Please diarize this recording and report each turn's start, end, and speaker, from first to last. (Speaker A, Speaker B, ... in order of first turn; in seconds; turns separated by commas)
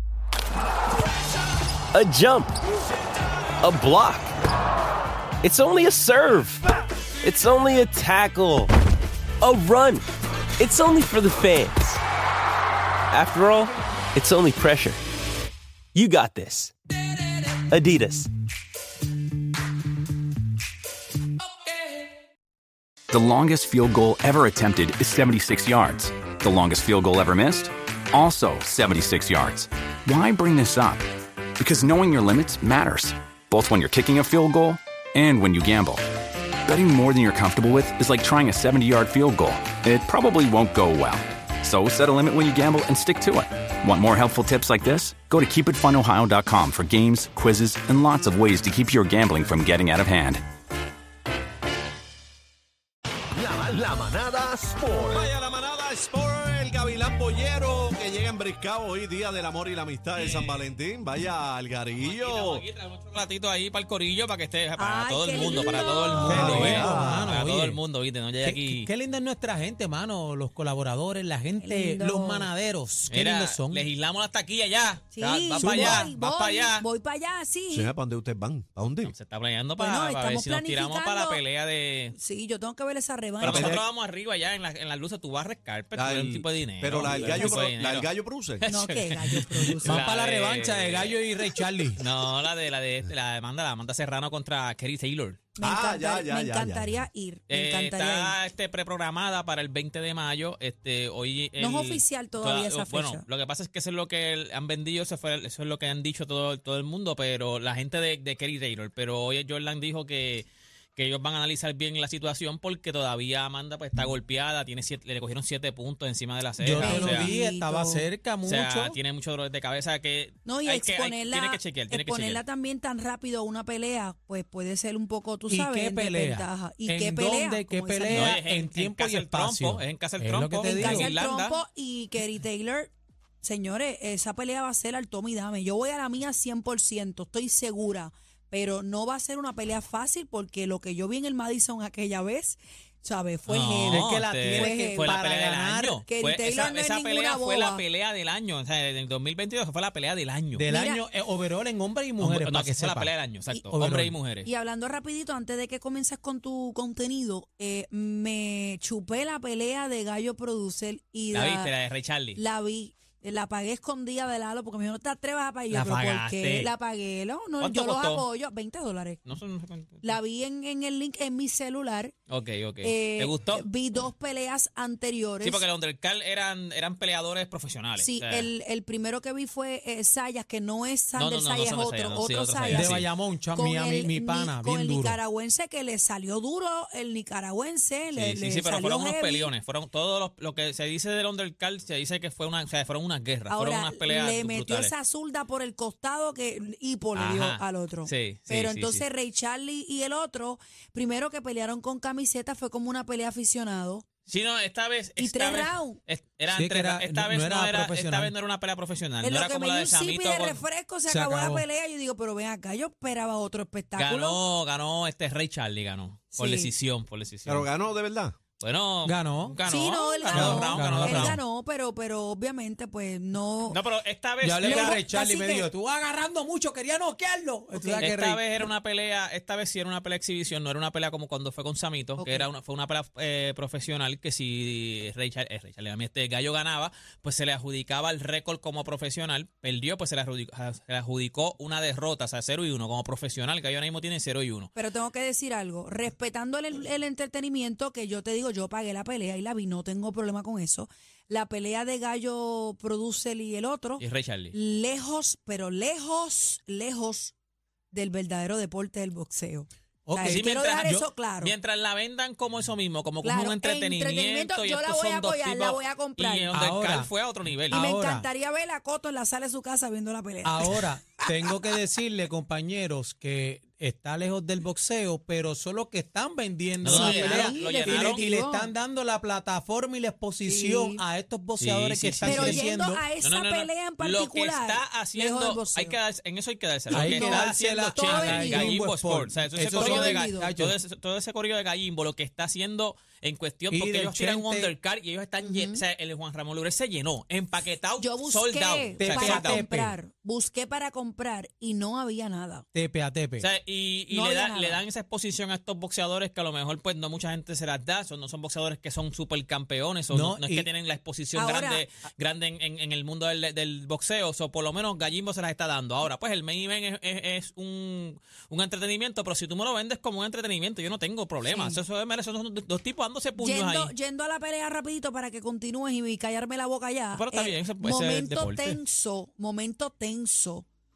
Speaker A: 1.9-2.6, Speaker A: 3.6-4.3, Speaker A: 5.4-6.7, Speaker A: 7.2-8.7, Speaker A: 9.4-10.1, Speaker A: 10.6-12.0, Speaker A: 13.1-15.0, Speaker A: 15.9-16.7, Speaker A: 17.7-18.3, Speaker B: 23.1-31.1, Speaker B: 31.6-36.0, Speaker B: 36.6-50.4, Speaker C: 53.4-62.6, Speaker D: 60.1-60.6, Speaker D: 62.0-68.9, Speaker E: 64.8-66.7, Speaker C: 66.0-67.3, Speaker F: 66.2-67.8, Speaker F: 68.4-73.8, Speaker E: 71.6-72.5, Speaker D: 73.1-76.8, Speaker E: 75.1-77.9, Speaker F: 75.6-76.1, Speaker C: 77.7-79.1, Speaker D: 79.0-82.2, Speaker E: 79.8-81.4, Speaker E: 82.1-83.8, Speaker D: 83.4-95.4, Speaker C: 83.4-83.8, Speaker C: 85.9-88.7, Speaker E: 87.2-87.6, Speaker E: 88.7-90.0, Speaker F: 89.8-92.0, Speaker E: 95.6-98.4, Speaker C: 95.6-97.0, Speaker D: 97.5-117.3, Speaker E: 101.6-103.2, Speaker F: 116.6-119.0, Speaker E: 116.8-118.1, Speaker D: 118.4-122.4, Speaker E: 120.5-128.3, Speaker F: 125.5-131.1, Speaker D: 128.1-131.6, Speaker E: 130.7-145.2, Speaker D: 143.5-150.7, Speaker F: 143.8-146.0, Speaker E: 146.1-147.8, Speaker F: 150.6-153.1, Speaker E: 150.7-151.0, Speaker D: 152.2-154.5, Speaker F: 153.7-154.2, Speaker E: 154.4-161.7, Speaker D: 161.3-162.4, Speaker E: 162.3-169.2, Speaker D: 165.7-166.7, Speaker D: 167.6-168.2, Speaker D: 169.2-170.2, Speaker E: 170.0-172.2, Speaker D: 172.3-173.7, Speaker E: 172.8-175.7, Speaker D: 175.4-178.5, Speaker E: 178.0-189.5, Speaker D: 181.2-183.1, Speaker F: 182.7-185.2, Speaker D: 188.1-194.9, Speaker E: 193.5-204.1, Speaker D: 197.2-199.0, Speaker D: 204.3-210.6, Speaker E: 205.2-206.0, Speaker F: 206.5-208.3, Speaker E: 209.2-214.4, Speaker F: 211.1-211.7, Speaker D: 214.0-217.7, Speaker E: 216.3-216.7, Speaker C: 217.4-218.4, Speaker D: 218.6-221.4, Speaker F: 219.1-219.6, Speaker E: 219.7-223.8, Speaker F: 220.3-221.4, Speaker D: 223.7-225.0, Speaker F: 224.4-228.4, Speaker E: 224.6-225.7, Speaker E: 227.7-228.1, Speaker D: 228.0-244.7, Speaker E: 232.2-232.5, Speaker E: 244.8-257.3, Speaker D: 254.0-254.6, Speaker E: 257.9-261.5, Speaker F: 260.1-261.1, Speaker D: 260.3-267.8, Speaker E: 263.2-266.5, Speaker F: 266.5-267.1, Speaker F: 267.7-268.3, Speaker E: 267.7-271.6, Speaker F: 270.4-283.0, Speaker D: 276.8-278.2, Speaker E: 276.9-278.7, Speaker E: 280.4-281.0, Speaker D: 281.6-282.6, Speaker E: 282.2-286.0, Speaker D: 283.2-299.6, Speaker F: 286.9-290.8, Speaker E: 286.9-288.8, Speaker E: 289.7-290.5, Speaker F: 293.7-294.7, Speaker E: 295.4-295.8, Speaker E: 298.0-302.7, Speaker F: 299.0-300.0, Speaker F: 302.7-303.5, Speaker D: 303.4-323.9, Speaker E: 304.1-304.8, Speaker F: 310.1-310.7, Speaker E: 311.3-311.9, Speaker E: 321.5-321.8, Speaker E: 323.4-330.7, Speaker D: 327.1-328.8